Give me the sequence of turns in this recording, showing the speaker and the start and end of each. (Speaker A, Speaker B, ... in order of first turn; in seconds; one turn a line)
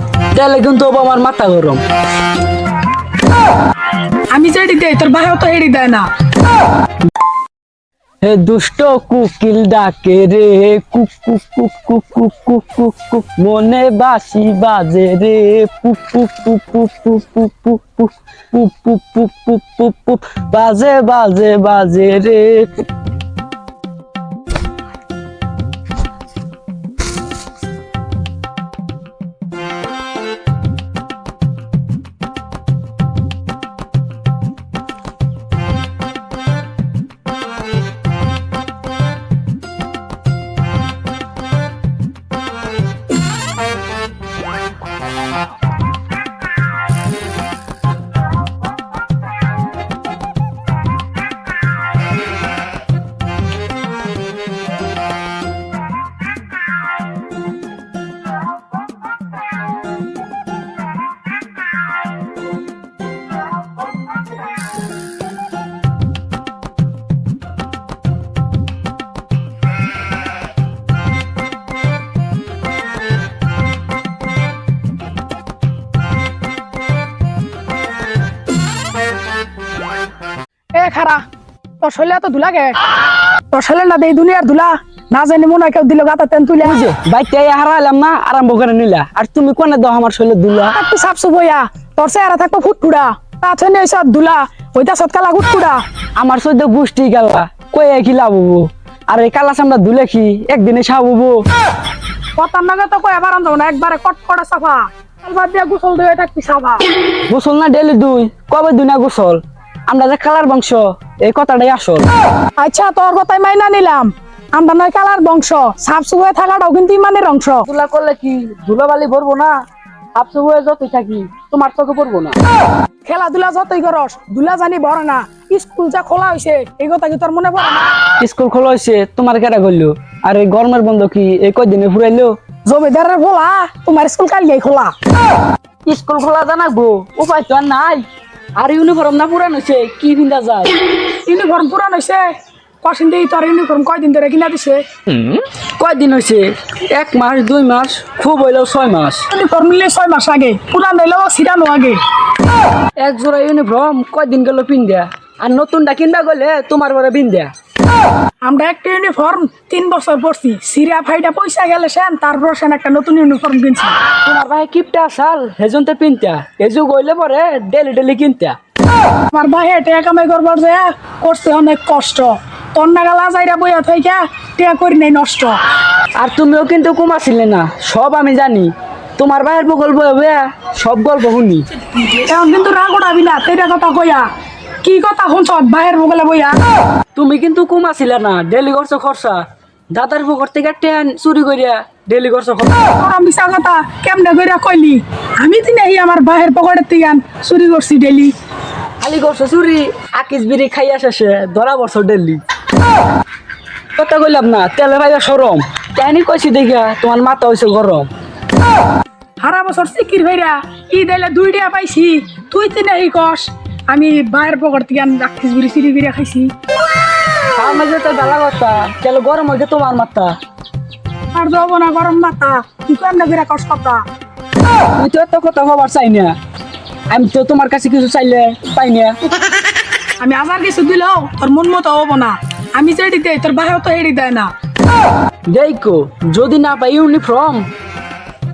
Speaker A: 0.3-1.8
Speaker B: 4.3-6.1
Speaker A: 8.2-22.9
Speaker B: 80.8-81.2
Speaker B: 81.8-82.8
Speaker B: 83.5-86.8
Speaker A: 86.6-90.8
Speaker B: 90.7-95.8
Speaker A: 96.2-101.4
Speaker B: 102.4-106.9
Speaker A: 107.3-112.1
Speaker B: 112.6-117.7
Speaker A: 117.7-119.6
Speaker A: 120.2-122.4
Speaker B: 123.0-128.0
Speaker A: 128.2-132.3
Speaker B: 132.7-134.9
Speaker A: 135.9-138.1
Speaker A: 138.6-140.8
Speaker B: 141.3-142.2
Speaker B: 142.8-144.8
Speaker A: 145.1-149.3
Speaker B: 149.3-152.0
Speaker A: 153.0-157.5
Speaker B: 158.4-164.0
Speaker A: 164.2-168.6
Speaker B: 169.3-175.6
Speaker A: 176.2-181.7
Speaker B: 182.0-184.3
Speaker B: 184.8-186.6
Speaker A: 187.2-192.9
Speaker B: 193.0-198.3
Speaker A: 199.0-202.4
Speaker A: 204.0-208.1
Speaker B: 209.4-216.5
Speaker A: 217.5-220.3
Speaker B: 221.3-224.0
Speaker A: 225.0-226.3
Speaker A: 227.1-229.2
Speaker B: 230.2-234.5
Speaker A: 235.5-237.7